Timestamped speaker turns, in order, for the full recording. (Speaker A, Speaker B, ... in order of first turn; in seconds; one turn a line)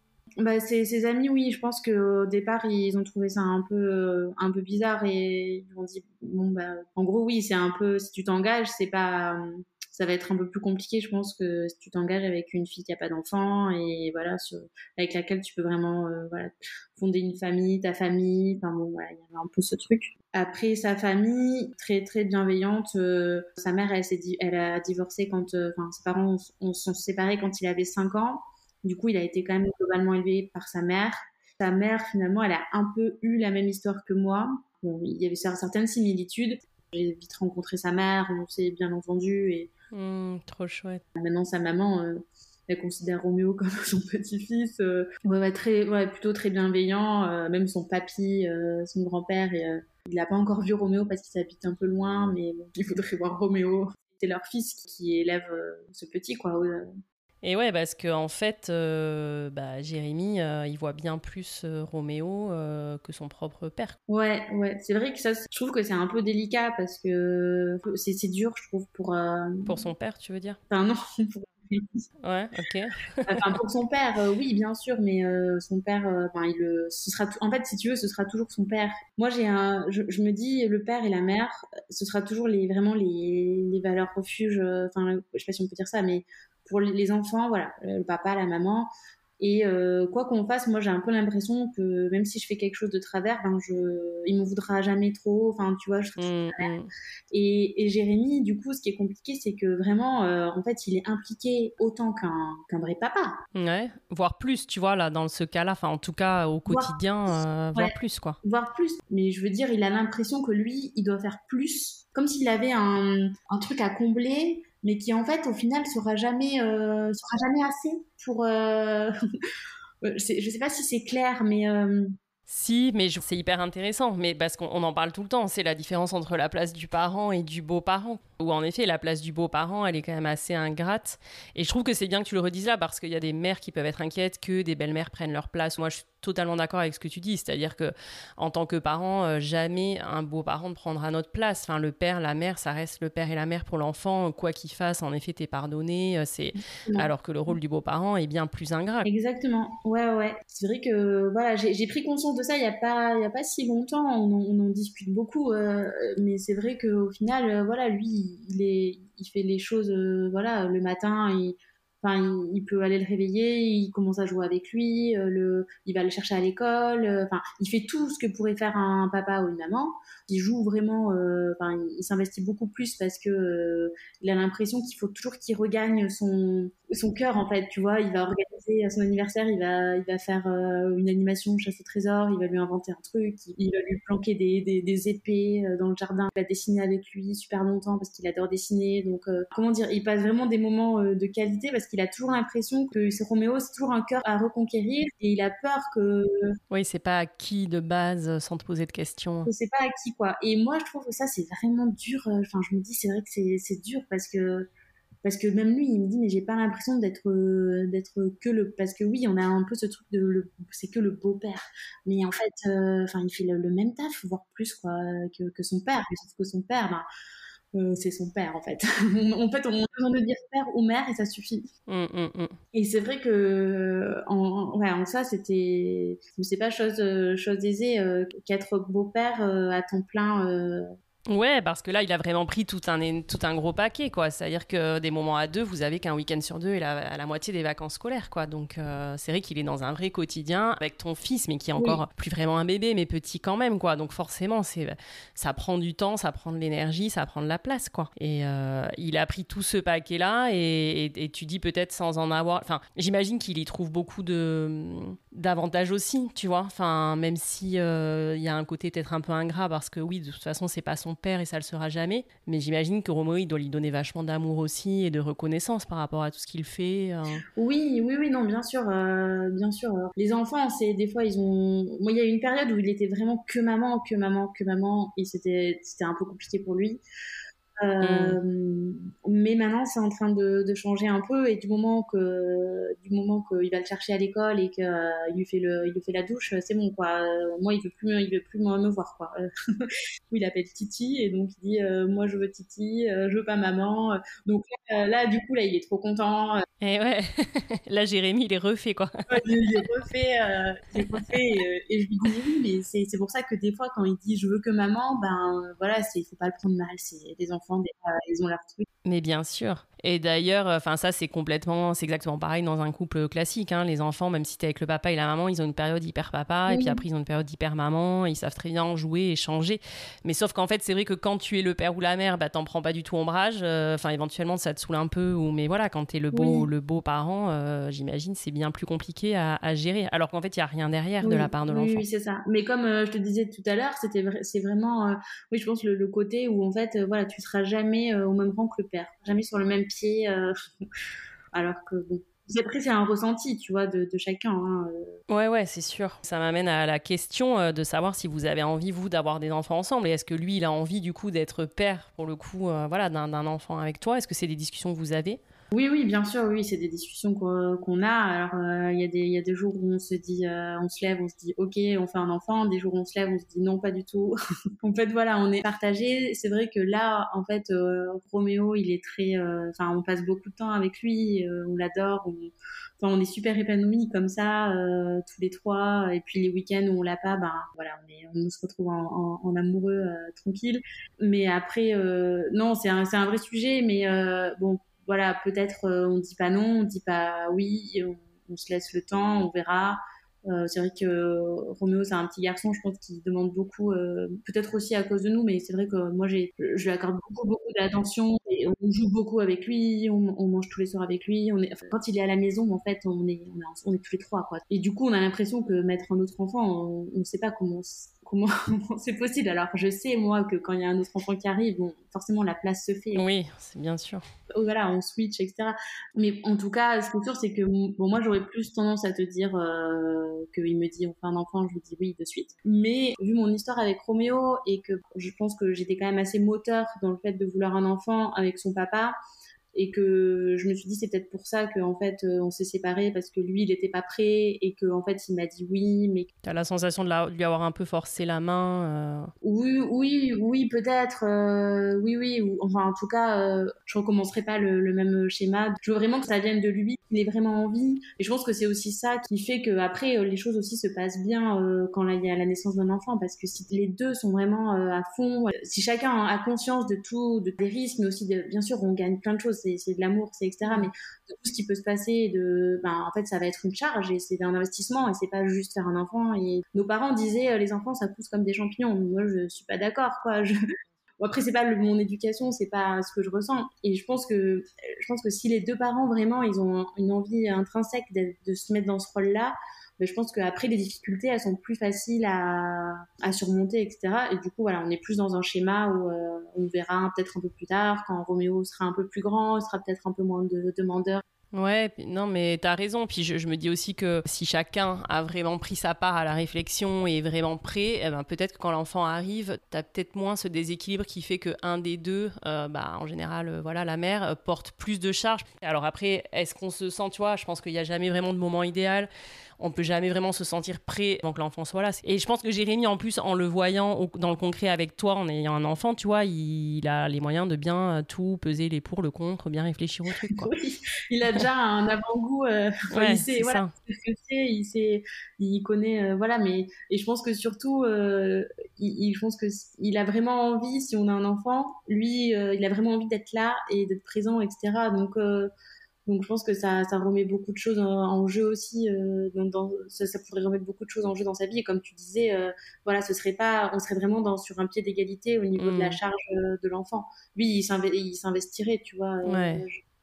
Speaker A: 0.4-39.7
Speaker B: 39.9-41.0
Speaker A: 41.2-56.9
Speaker B: 57.4-64.0
Speaker A: 64.1-69.9
Speaker B: 69.7-70.6
Speaker A: 70.7-72.1
Speaker B: 72.2-73.6
Speaker A: 73.3-96.7
Speaker B: 96.2-96.9
Speaker A: 97.3-103.3
Speaker B: 103.5-108.4
Speaker A: 106.7-107.0
Speaker A: 107.8-119.1
Speaker A: 120.0-122.1
Speaker B: 122.5-149.1
Speaker A: 146.8-147.1
Speaker A: 149.0-196.6
Speaker B: 196.7-199.5
Speaker A: 199.5-204.7
Speaker A: 205.2-217.1
Speaker A: 217.7-221.7
Speaker B: 221.9-222.6
Speaker A: 222.7-230.9
Speaker B: 231.3-267.4
Speaker A: 241.8-242.0
Speaker A: 267.6-277.0
Speaker A: 277.8-296.6
Speaker B: 278.0-278.4
Speaker B: 296.8-299.2
Speaker A: 299.3-308.9
Speaker B: 309.1-332.1
Speaker A: 316.7-317.0
Speaker A: 326.3-326.7
Speaker A: 331.2-340.5
Speaker A: 341.5-345.2
Speaker B: 345.3-355.4
Speaker A: 355.7-413.2
Speaker B: 413.1-414.2
Speaker A: 414.6-429.1
Speaker A: 429.7-436.3
Speaker B: 436.4-439.3
Speaker A: 439.4-470.5
Speaker A: 471.2-491.2
Speaker B: 491.5-520.5
Speaker A: 520.3-535.5
Speaker B: 522.9-523.7
Speaker A: 536.1-549.8
Speaker B: 545.6-546.0
Speaker B: 549.2-549.7